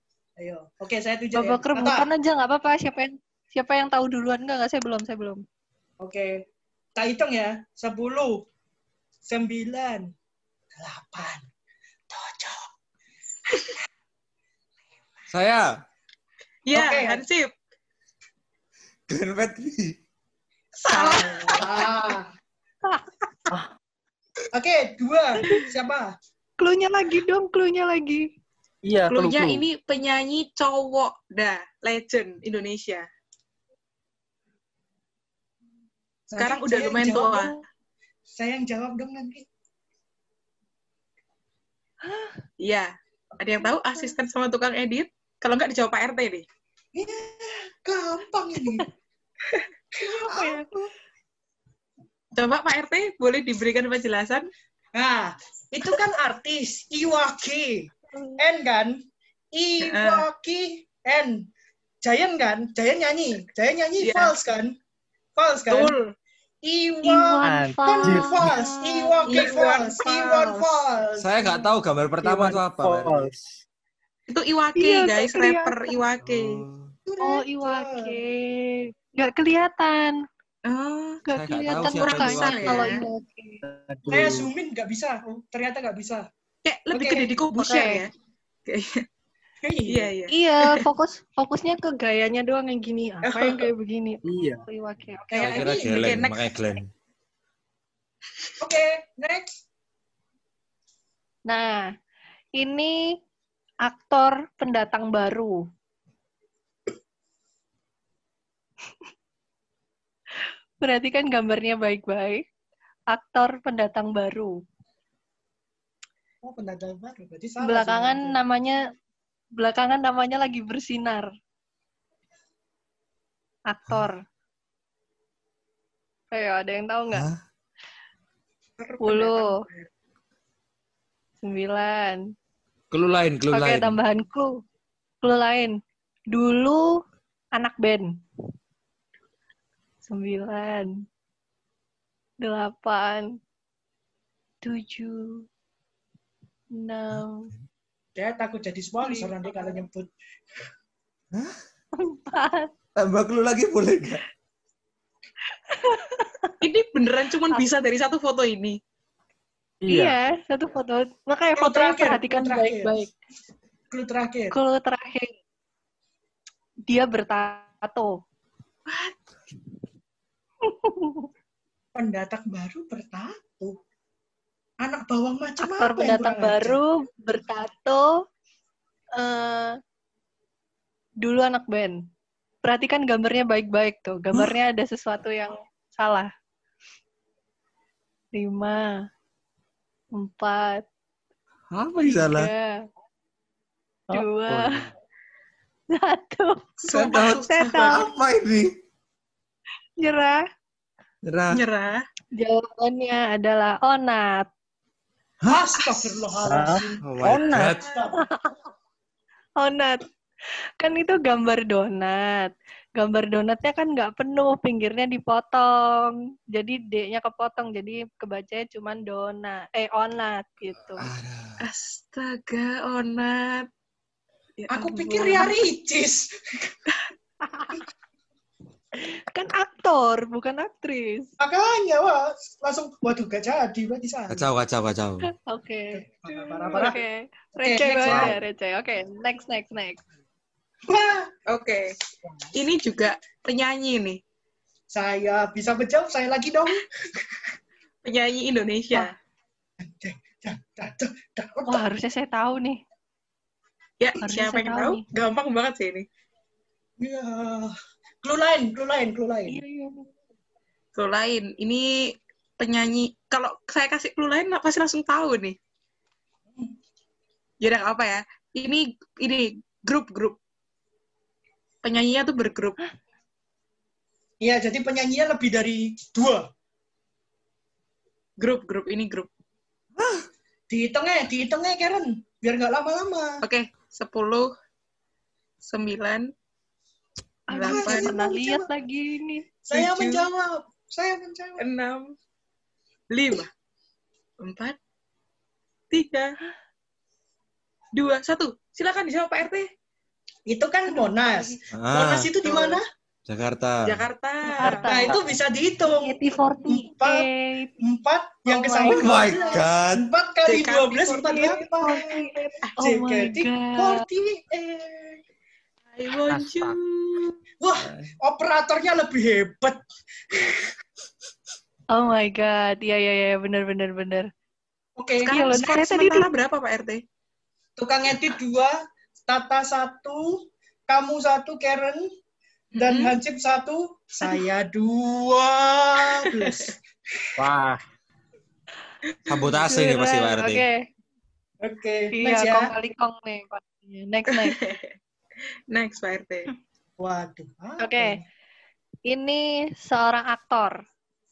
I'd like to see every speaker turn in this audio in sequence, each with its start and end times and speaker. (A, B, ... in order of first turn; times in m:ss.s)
0:00.4-0:02.1 A
0:01.4-0:05.4 B
0:06.0-0:06.4 A
0:07.0-0:08.4 A
0:09.3-0:10.1 A
0:10.8-0:11.5 A
0:12.1-0:12.7 A
0:15.3-0:15.7 C
0:16.7-0:17.5 D
0:16.7-0:17.2 A
0:19.1-0:20.0 C
0:20.8-0:22.1 D
0:20.9-0:22.3 A
0:24.5-0:26.1 A
0:26.6-0:28.3 B
0:28.8-0:29.6 E
0:29.1-0:33.1 D
0:36.3-0:37.5 A
0:36.4-0:37.6 D
0:38.3-0:39.5 A
0:42.0-0:42.4 B
0:42.6-0:46.5 D
0:47.0-0:48.8 A
0:49.9-0:50.5 A
0:50.0-0:50.8 B
0:52.4-0:54.5 D
0:55.0-0:59.0 A
0:58.1-0:58.4 B
0:59.5-1:01.4 A
0:59.8-1:00.3 D
1:02.0-1:04.8 A
1:04.0-1:04.4 D
1:05.4-1:06.0 A
1:05.7-1:06.1 D
1:06.6-1:11.4 A
1:07.0-1:09.6 B
1:07.4-1:08.6 E
1:09.2-1:10.7 D
1:11.2-1:13.4 C
1:12.2-1:13.4 E
1:14.3-1:16.6 D
1:14.8-1:16.0 B
1:16.2-1:16.9 C
1:17.1-1:18.2 A
1:17.2-1:20.2 B
1:20.6-1:21.2 D
1:21.2-1:23.6 B
1:21.3-1:23.0 C
1:21.7-1:23.0 D
1:23.6-1:24.5 E
1:24.1-1:26.3 A
1:26.6-1:28.1 D
1:26.9-1:27.3 A
1:27.6-1:28.0 B
1:28.7-1:29.0 D
1:29.6-1:30.1 A
1:29.9-1:30.8 D
1:30.3-1:35.9 B
1:33.2-1:33.7 D
1:34.2-1:34.6 E
1:35.3-1:36.2 A
1:35.4-1:36.9 C
1:35.5-1:36.5 D
1:38.6-1:39.6 A
1:41.5-1:41.8 B
1:42.6-1:43.0 B
1:43.8-1:45.6 B
1:50.8-1:52.4 B
1:53.1-1:54.6 B
1:56.4-1:58.4 A
1:57.6-1:58.8 B
1:59.6-2:01.3 B
2:03.7-2:04.2 B
2:06.3-2:07.3 B
2:07.1-2:07.4 C
2:08.8-2:09.9 D
2:09.0-2:09.5 B
2:11.4-2:12.2 B
2:12.9-2:14.0 C
2:13.5-2:14.6 B
2:15.2-2:15.8 B
2:16.3-2:16.9 B
2:17.6-2:18.1 B
2:20.0-2:20.9 B
2:22.4-2:23.2 B
2:24.6-2:25.4 B
2:26.8-2:27.5 B
2:28.2-2:30.1 A
2:29.0-2:29.8 B
2:32.0-2:32.7 B
2:33.0-2:34.2 C
2:35.7-2:36.6 B
2:36.6-2:38.8 D
2:39.8-2:40.2 E
2:39.9-2:43.1 B
2:41.6-2:42.9 A
2:43.9-2:44.6 A
2:44.5-2:45.3 B
2:46.9-2:48.2 B
2:48.9-2:49.2 D
2:50.6-2:51.3 B
2:52.0-2:53.8 A
2:54.8-2:56.8 A
2:55.6-2:58.1 B
2:59.2-2:59.8 B
3:01.2-3:02.0 B
3:02.6-3:06.3 B
3:08.4-3:08.9 B
3:10.2-3:10.9 B
3:11.7-3:12.5 C
3:12.1-3:12.8 B
3:14.1-3:14.9 E
3:14.1-3:14.8 B
3:15.9-3:18.1 B
3:16.8-3:18.1 D
3:16.9-3:18.7 C
3:20.0-3:20.4 B
3:21.2-3:21.6 C
3:21.5-3:22.0 D
3:22.4-3:24.5 B
3:25.5-3:28.2 A
3:25.8-3:26.0 D
3:26.4-3:27.8 E
3:27.0-3:27.8 C
3:28.2-3:28.6 B
3:29.6-3:30.0 B
3:30.8-3:41.1 B
3:41.0-3:41.6 C
3:41.6-3:43.7 D
3:44.6-3:45.7 D
3:44.7-3:46.7 A
3:47.5-3:47.8 B
3:49.0-3:51.3 B
3:51.4-3:54.5 A
3:54.3-3:55.3 C
3:55.3-3:56.0 B
3:56.0-3:57.0 A
3:56.4-3:56.9 D
3:56.7-4:00.0 B
3:57.6-3:58.4 A
3:58.1-3:58.4 C
4:00.9-4:01.3 A
4:01.5-4:01.9 D
4:02.5-4:04.2 D
4:04.9-4:07.4 A
4:08.0-4:09.1 D
4:09.8-4:11.8 A
4:11.7-4:12.8 B
4:14.0-4:16.1 D
4:14.2-4:15.0 B
4:17.0-4:19.6 A
4:19.5-4:20.1 B
4:21.0-4:25.6 D
4:27.6-4:30.4 D
4:31.8-4:32.8 D
4:34.4-4:36.5 A
4:38.4-4:39.3 D
4:40.0-4:40.3 C
4:40.7-4:43.4 A
4:43.4-4:44.5 D
4:45.6-4:46.3 D
4:47.5-4:49.4 B
4:47.5-4:48.2 D
4:47.6-4:48.7 A
4:49.6-4:51.6 A
4:49.7-4:50.2 D
4:51.6-4:52.1 D
4:53.1-4:53.5 D
4:54.4-4:54.8 D
4:55.9-4:56.4 D
4:58.0-4:59.7 D
5:00.5-5:02.8 A
5:00.9-5:01.6 B
5:01.7-5:02.3 C
5:02.4-5:02.8 D
5:03.3-5:04.0 C
5:03.8-5:05.2 D
5:04.4-5:05.2 B
5:04.8-5:07.3 A
5:05.9-5:07.7 B
5:07.8-5:12.3 A
5:08.5-5:09.6 B
5:08.9-5:10.1 C
5:10.4-5:12.0 D
5:11.5-5:14.0 B
5:12.8-5:15.2 A
5:15.9-5:17.4 D
5:16.3-5:16.8 E
5:17.6-5:20.6 A
5:17.8-5:18.1 C
5:21.9-5:24.3 B
5:25.0-5:25.8 A
5:25.3-5:26.3 B
5:25.5-5:27.0 D
5:27.8-5:28.8 A
5:29.3-5:32.1 A
5:32.8-5:33.2 D
5:32.8-5:36.8 A
5:36.4-5:36.7 D
5:37.4-5:37.8 E
5:39.3-5:40.7 C
5:39.5-5:40.8 B
5:41.6-5:42.7 A
5:42.1-5:44.6 B
5:44.3-5:45.0 D
5:45.7-5:46.5 D
5:47.0-5:48.2 A
5:47.8-5:48.2 B
5:49.1-5:50.8 B